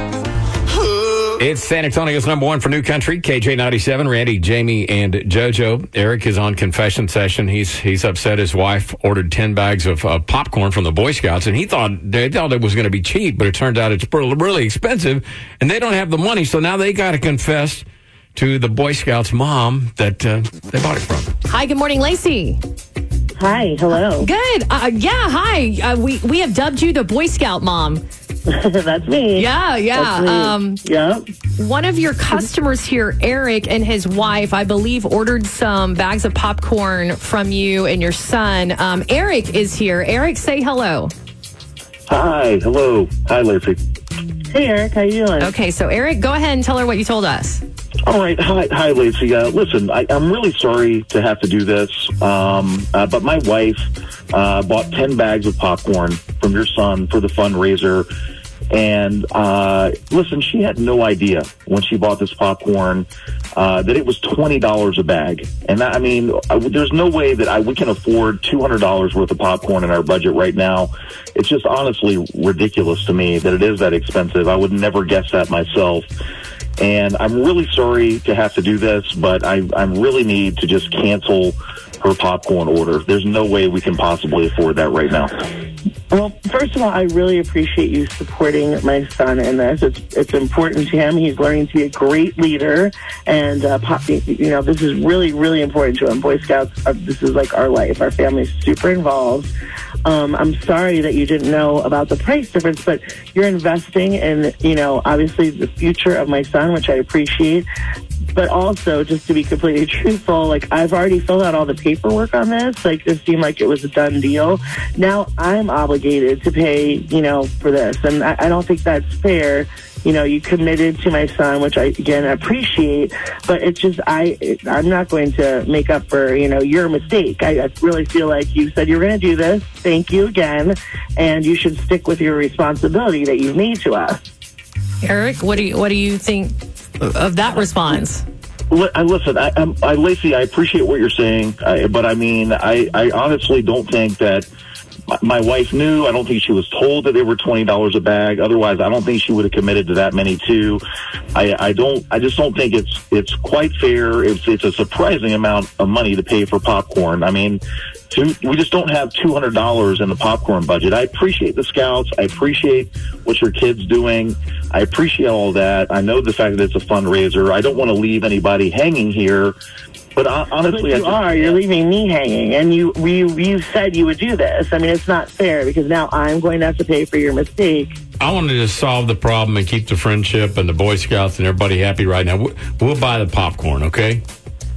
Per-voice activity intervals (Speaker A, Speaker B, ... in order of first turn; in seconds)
Speaker A: 1.4-21.3, 178.2-184.2
Speaker B: 21.5-22.6, 24.2-28.0, 29.3-30.8, 31.6-41.1, 45.4-47.6, 135.0-138.2
Speaker C: 23.4-24.3, 28.5-31.2, 44.5-45.5, 86.1-99.5, 100.0-107.7, 108.3-134.2, 170.6-177.9
Speaker D: 42.1-43.8, 48.0-58.1, 58.7-76.1, 76.8-85.5, 138.7-144.5, 145.1-150.8, 151.3-169.6, 170.2-171.6